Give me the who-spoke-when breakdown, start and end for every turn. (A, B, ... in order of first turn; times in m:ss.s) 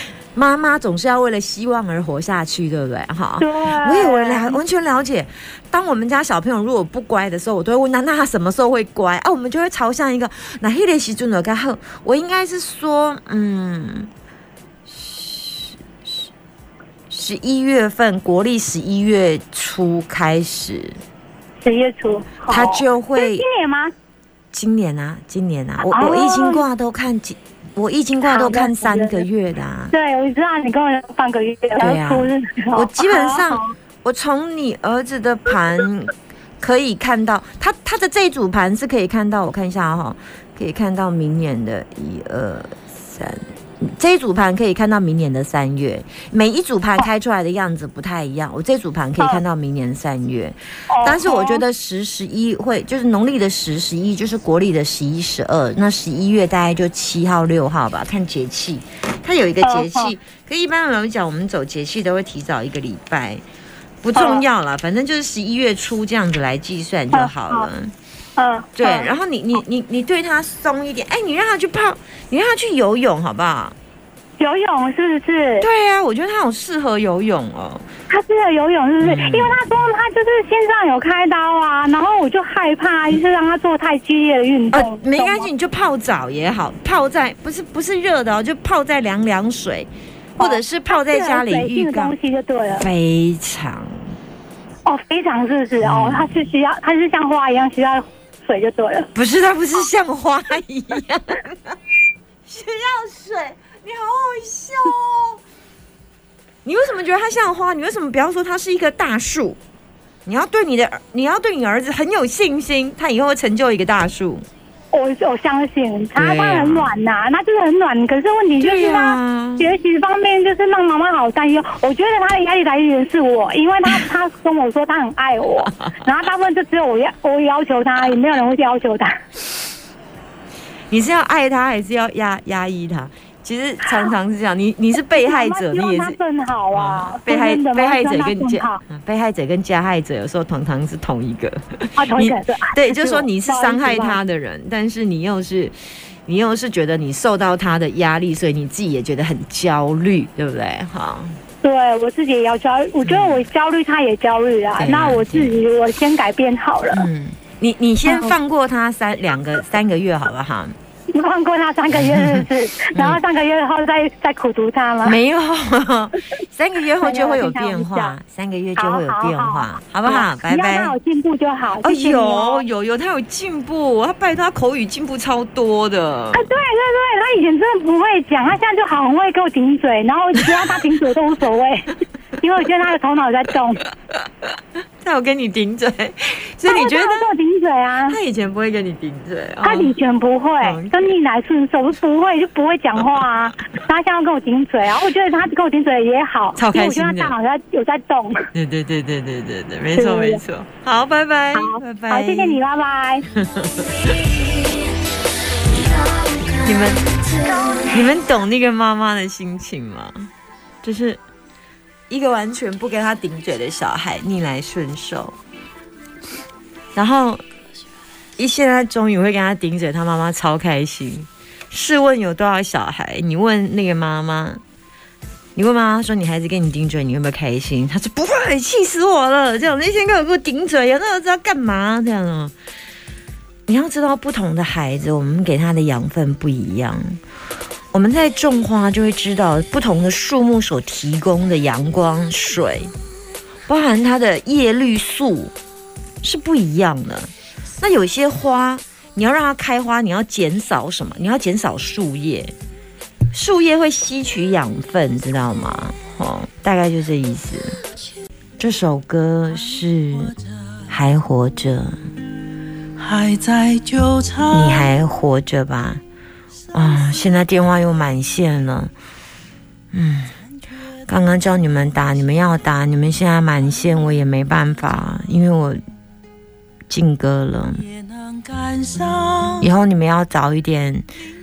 0:00.3-0:14.1 A
0:03.4-0:04.6 B
0:14.9-0:16.1 A
0:17.1-0:21.0 A
0:21.6-0:23.9 B
0:22.5-0:23.4 A
0:24.5-0:29.9 A
0:25.8-0:26.6 B
0:28.2-0:29.2 B
0:29.9-0:33.7 B
0:31.8-1:03.4 A
0:50.9-0:51.6 B
0:59.6-1:00.1 B
1:04.0-1:07.9 A
1:04.1-1:04.4 B
1:07.1-1:07.7 B
1:08.4-1:09.1 B
1:08.8-1:13.7 A
1:14.4-1:15.7 B
1:15.6-1:17.9 A
1:18.1-1:25.5 B
1:19.0-1:19.5 A
1:24.7-1:32.2 A
1:30.4-1:32.9 B
1:32.7-1:34.0 A
1:34.8-1:39.1 B
1:35.8-1:36.4 A
1:39.1-1:41.8 A
1:42.4-1:45.4 A
1:46.6-1:49.6 A
1:50.2-1:54.4 A
1:54.9-2:09.2 B
1:56.2-1:56.9 A
1:58.6-1:59.7 A
2:10.9-2:16.2 A
2:15.1-2:18.8 B
2:16.7-2:25.7 A
2:22.0-2:24.2 B
2:26.2-2:31.4 A
2:31.6-2:37.0 B
2:33.0-2:33.4 A
2:34.8-2:35.5 A
2:36.9-2:40.7 A
2:38.0-2:38.3 B
2:41.1-2:45.2 B
2:41.9-2:43.2 A
2:45.0-2:50.9 A
2:47.0-2:48.2 B
2:48.8-2:52.6 B
2:51.8-2:56.5 A
2:56.3-3:03.8 B
3:05.0-3:07.3 A
3:06.6-3:08.2 B
3:08.1-3:09.9 A
3:09.6-3:18.5 B
3:10.6-3:11.1 A
3:16.6-3:17.3 A
3:18.5-3:22.6 A
3:19.9-3:20.4 B
3:21.5-3:23.2 B
3:23.3-3:24.1 A
3:26.6-3:27.0 A
3:27.8-3:30.3 A
3:30.8-3:31.2 A
3:32.1-3:35.4 A
3:36.9-3:37.4 A
3:38.4-3:44.6 A
3:45.6-3:52.5 A
3:53.7-3:57.2 A
3:57.9-4:02.9 A
4:03.7-4:05.5 A
4:06.2-4:12.5 A
4:13.3-4:17.8 A
4:18.6-4:20.3 A
4:20.9-4:21.9 A
4:23.0-4:24.4 C
4:24.5-4:26.0 A
4:26.7-4:28.9 A
4:29.9-4:30.4 A
4:31.0-4:35.8 A
4:36.9-4:37.8 A
4:38.9-4:39.5 C
4:39.6-4:41.1 A